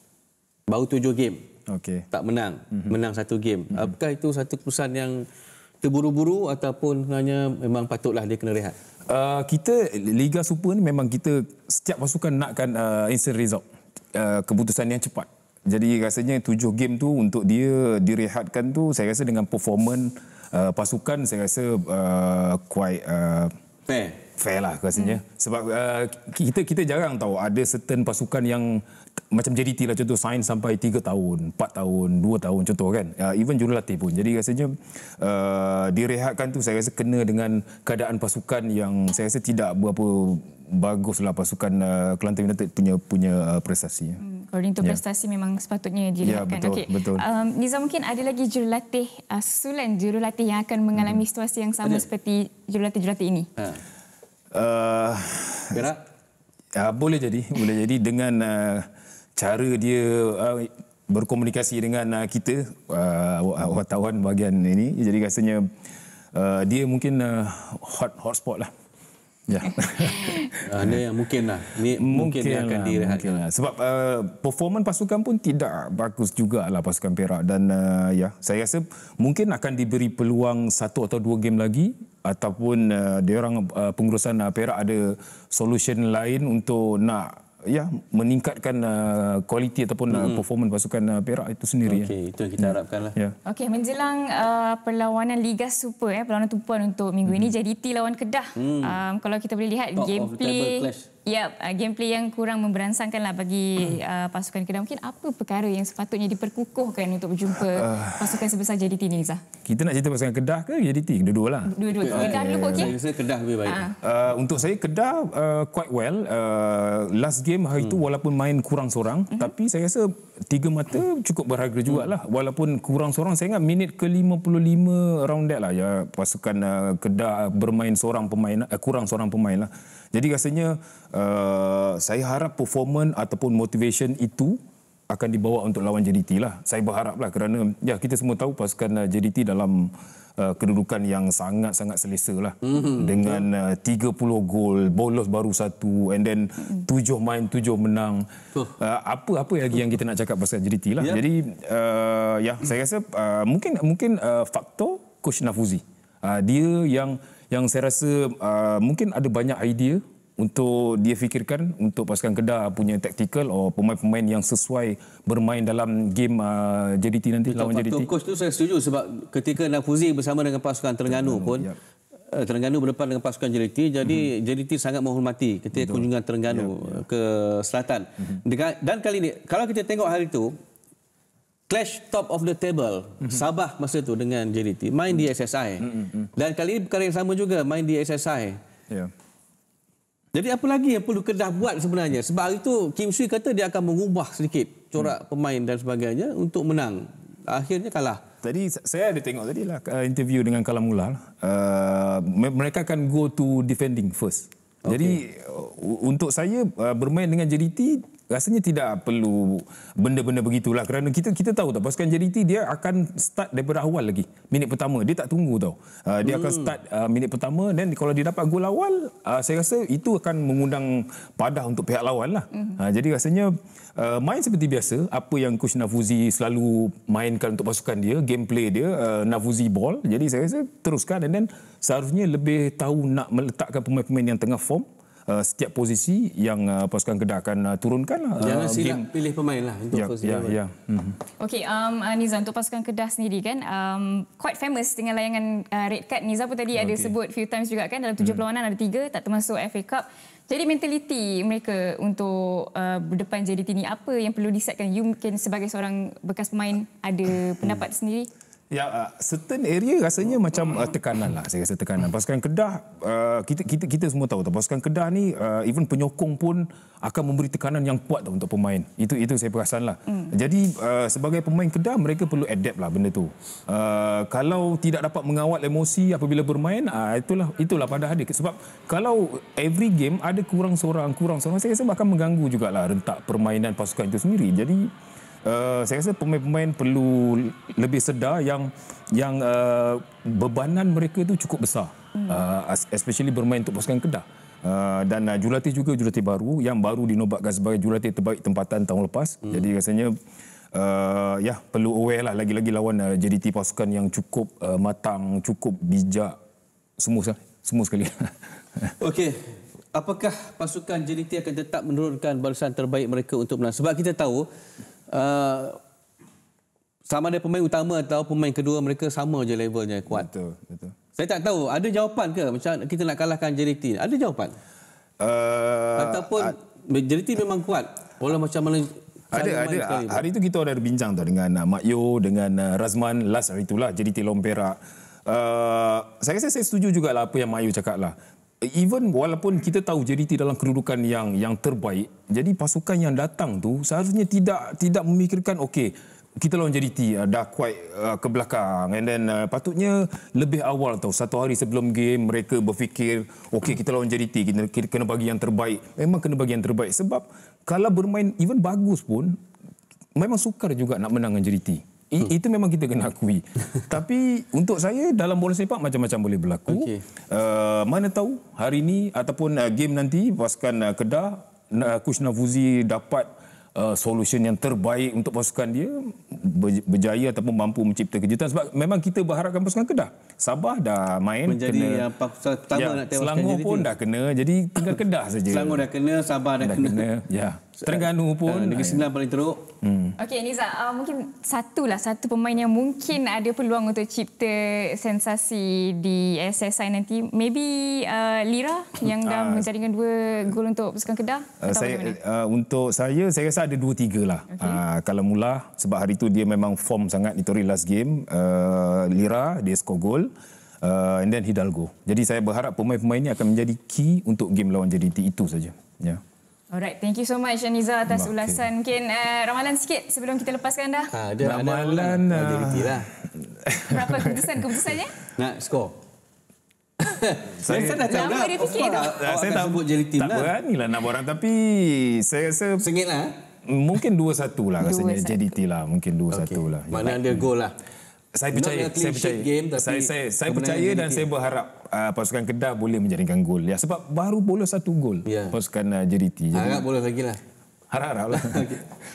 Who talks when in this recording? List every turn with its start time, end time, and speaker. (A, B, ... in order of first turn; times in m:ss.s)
0:00.7-0:01.4 A
0:01.7-0:02.1 B
0:02.1-0:05.2 A
0:05.8-0:08.7 A
0:09.1-0:23.5 B
0:23.9-0:24.2 A
0:24.4-0:44.2 B
0:44.2-0:53.5 C
0:46.2-0:47.2 B
0:51.0-0:51.2 B
0:54.5-0:55.9 B
0:55.7-0:56.0 A
0:56.8-0:58.8 B
0:59.4-1:05.7 B
1:06.3-1:08.7 B
1:09.5-1:11.0 B
1:10.0-1:10.4 C
1:10.6-1:13.4 A
1:11.9-1:33.3 B
1:30.1-1:30.4 A
1:31.9-1:33.2 A
1:33.4-1:49.4 C
1:37.3-1:37.5 B
1:38.6-1:39.0 A
1:40.0-1:41.1 A
1:47.6-1:48.4 B
1:49.6-1:52.9 B
1:51.7-1:52.9 C
1:52.0-1:53.9 A
1:53.6-1:53.9 C
1:54.0-2:28.2 B
2:22.6-2:23.4 A
2:28.8-2:48.1 B
2:47.5-2:51.7 A
2:51.0-2:51.8 B
2:52.3-3:00.5 A
2:55.7-2:57.0 B
3:01.7-3:08.6 A
3:05.8-3:06.3 B
3:10.3-3:18.2 A
3:18.4-3:59.1 B
3:24.8-3:25.2 A
3:36.2-3:36.7 A
3:58.4-4:00.6 A
3:59.9-4:01.2 B
4:01.4-4:18.3 C
4:06.7-4:07.1 B
4:18.7-4:44.9 B
4:45.4-5:00.1 B
5:00.7-5:06.4 B
5:07.0-5:08.9 B
5:09.0-5:14.5 A
5:15.1-5:15.8 A
5:17.0-5:20.3 A
5:20.1-5:21.0 B
5:21.2-5:24.5 A
5:25.2-5:26.5 B
5:26.0-5:30.2 A
5:29.3-5:59.4 B
6:00.2-6:22.1 B
6:06.7-6:07.0 A
6:21.4-6:23.9 A
6:22.7-6:25.9 B
6:25.5-6:27.0 A
6:26.6-6:29.1 B
6:27.8-6:29.6 A
6:29.8-6:30.2 B
6:30.2-6:42.2 C
6:39.0-6:39.7 B
6:41.6-6:50.3 B
6:44.5-6:44.8 C
6:50.8-6:56.2 B
6:56.7-7:01.1 C
6:58.1-6:58.6 B
7:01.1-7:03.1 A
7:01.4-7:04.9 B
7:03.9-7:05.1 C
7:05.4-7:05.9 A
7:07.0-7:10.5 A
7:07.6-7:08.3 B
7:08.0-7:09.1 C
7:08.9-7:12.9 B
7:12.8-7:13.3 A
7:13.6-7:17.5 B
7:14.8-7:15.4 C
7:16.3-7:17.8 A
7:18.3-7:26.8 B
7:18.5-7:21.3 A
7:25.3-7:25.5 A
7:26.5-7:27.4 A
7:27.9-7:28.8 B
7:28.3-7:28.8 A